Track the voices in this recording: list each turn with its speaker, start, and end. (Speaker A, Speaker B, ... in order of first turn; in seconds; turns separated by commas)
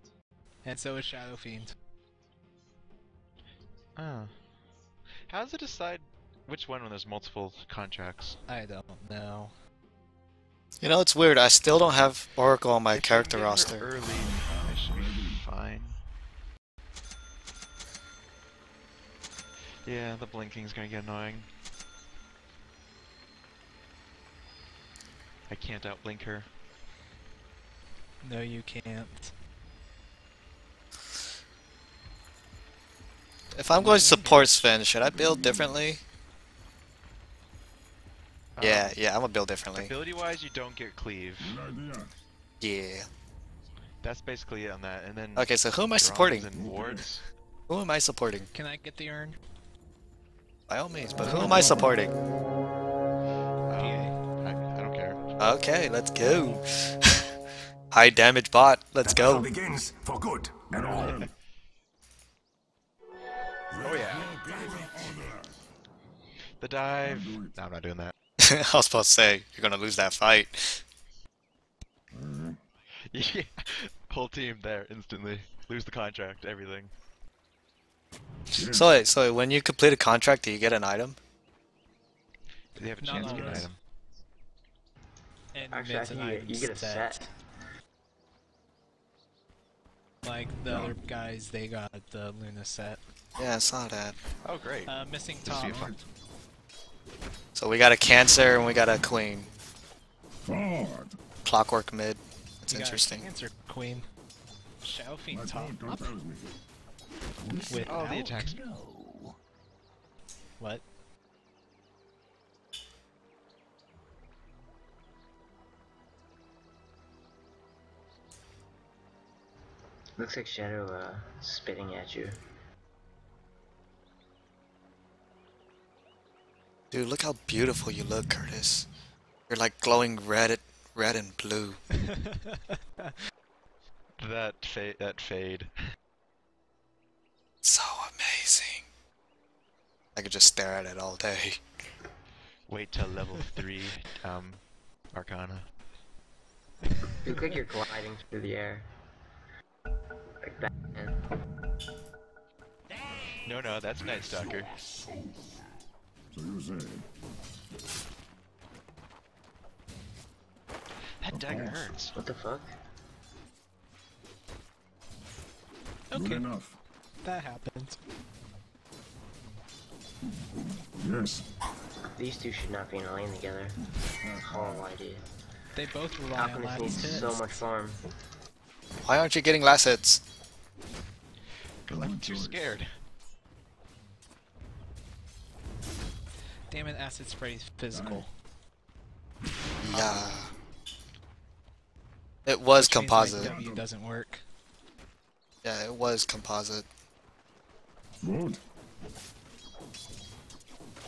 Speaker A: 0.6-1.7, Speaker B: 4.0-4.3, Speaker B: 5.3-8.4, Speaker A: 8.5-9.5, Speaker C: 10.8-13.9, Speaker B: 12.9-16.0, Speaker D: 14.1-15.4, Speaker B: 19.8-21.5, Speaker B: 25.5-26.5, Speaker A: 28.2-29.3, Speaker C: 33.5-36.0, Speaker D: 33.8-35.8, Speaker B: 38.5-39.0, Speaker C: 38.6-39.9, Speaker B: 39.7-41.5, Speaker D: 41.4-42.1, Speaker C: 42.6-43.1, Speaker B: 44.0-47.2, Speaker C: 45.4-46.5, Speaker D: 46.5-47.1, Speaker C: 47.7-48.5, Speaker A: 48.5-49.4, Speaker C: 50.7-52.1, Speaker D: 51.1-52.0, Speaker B: 53.7-55.2, Speaker A: 53.8-54.2, Speaker C: 55.4-57.3, Speaker C: 57.9-59.5, Speaker E: 59.0-61.2, Speaker D: 60.7-61.3, Speaker D: 63.7-65.5, Speaker B: 63.8-64.3, Speaker E: 63.9-65.1, Speaker B: 66.6-68.1, Speaker D: 67.0-67.5, Speaker C: 68.4-70.8, Speaker D: 72.1-72.6, Speaker B: 73.1-76.9, Speaker D: 78.5-79.0, Speaker C: 78.6-81.2, Speaker B: 82.8-83.8, Speaker A: 83.0-83.7, Speaker D: 83.1-83.7, Speaker A: 85.5-87.3, Speaker F: 85.7-87.3, Speaker A: 90.2-93.0, Speaker D: 90.7-90.9, Speaker C: 93.4-94.2, Speaker B: 94.4-94.9, Speaker A: 94.8-95.9, Speaker D: 95.5-96.1, Speaker B: 95.5-95.9, Speaker C: 97.5-99.5, Speaker D: 100.4-101.2, Speaker C: 101.4-103.3, Speaker A: 102.7-104.1, Speaker A: 104.8-106.1, Speaker D: 105.3-106.5, Speaker D: 107.4-109.3, Speaker A: 107.7-108.6, Speaker B: 107.9-108.6, Speaker A: 110.6-110.8, Speaker F: 120.2-122.4, Speaker C: 126.9-128.9, Speaker C: 129.5-131.8, Speaker A: 132.1-133.1, Speaker B: 134.2-135.7, Speaker C: 137.6-138.8, Speaker C: 140.1-141.6, Speaker B: 142.7-145.7, Speaker F: 147.2-148.9, Speaker F: 150.4-151.2, Speaker B: 153.4-154.7, Speaker D: 153.9-155.6, Speaker D: 156.3-157.1, Speaker B: 161.2-162.1, Speaker D: 161.3-161.9, Speaker F: 162.1-162.7, Speaker A: 166.1-166.4, Speaker D: 166.1-166.8, Speaker A: 167.2-168.0, Speaker D: 171.0-171.4, Speaker F: 172.2-173.8, Speaker D: 174.2-174.9, Speaker F: 174.4-175.2, Speaker A: 175.7-177.6, Speaker F: 176.3-178.0, Speaker C: 179.0-180.2, Speaker D: 181.9-182.8, Speaker B: 181.9-182.9, Speaker A: 186.7-188.3, Speaker D: 187.9-188.2, Speaker C: 189.8-190.5, Speaker C: 192.4-193.5, Speaker A: 192.8-194.4, Speaker D: 193.3-193.9, Speaker C: 195.6-196.8, Speaker D: 198.2-198.6